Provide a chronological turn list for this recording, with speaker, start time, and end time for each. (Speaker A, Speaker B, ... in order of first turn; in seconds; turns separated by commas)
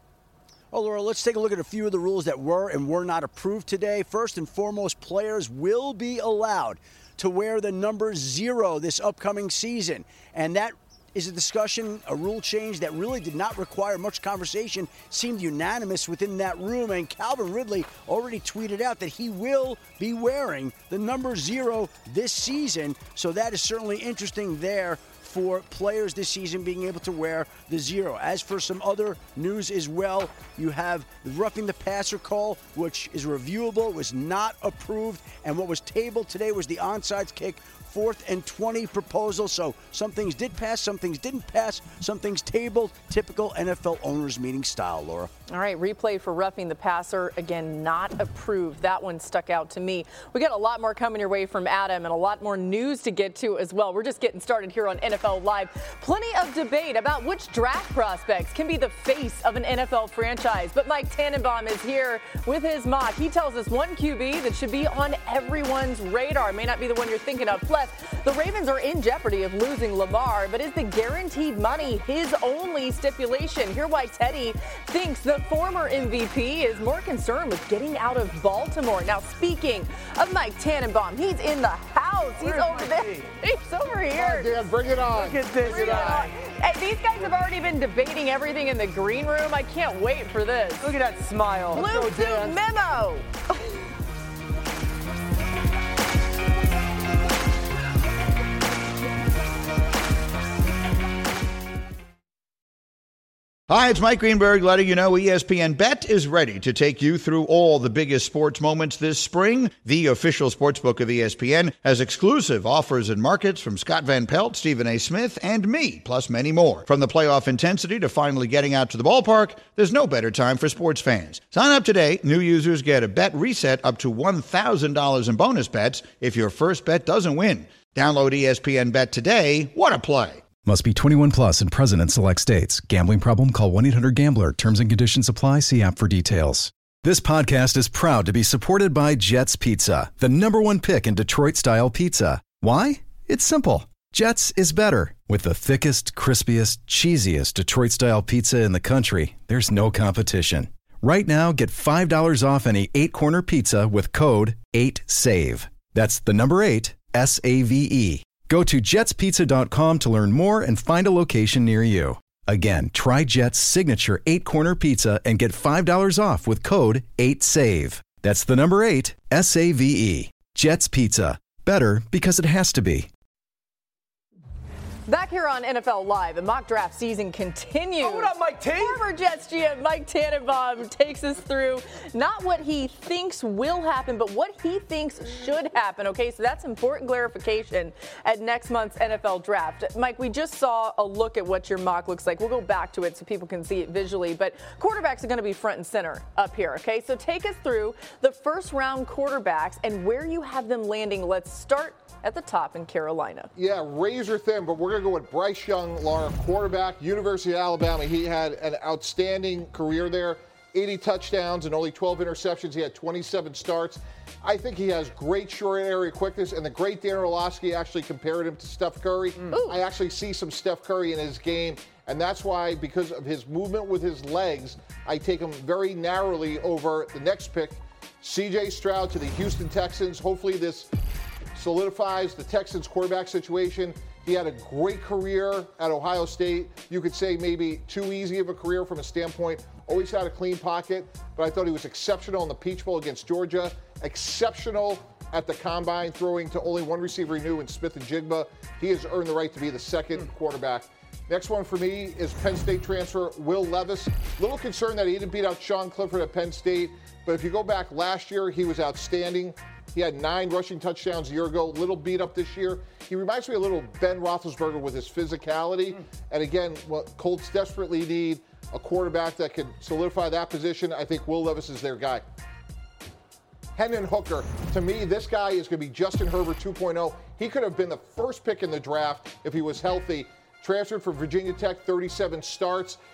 Speaker A: 0.7-45.3, Speaker B: 45.5-84.5, Speaker C: 82.4-83.3, Speaker D: 84.1-86.2, Speaker C: 85.1-86.3, Speaker B: 85.6-90.9, Speaker C: 90.8-92.6, Speaker B: 91.7-93.3, Speaker E: 103.7-130.4, Speaker F: 130.6-173.1, Speaker B: 175.1-203.5, Speaker C: 178.0-179.0, Speaker D: 203.6-230.9, Speaker B: 219.5-219.8, Speaker D: 231.6-272.2, Speaker D: 273.8-283.0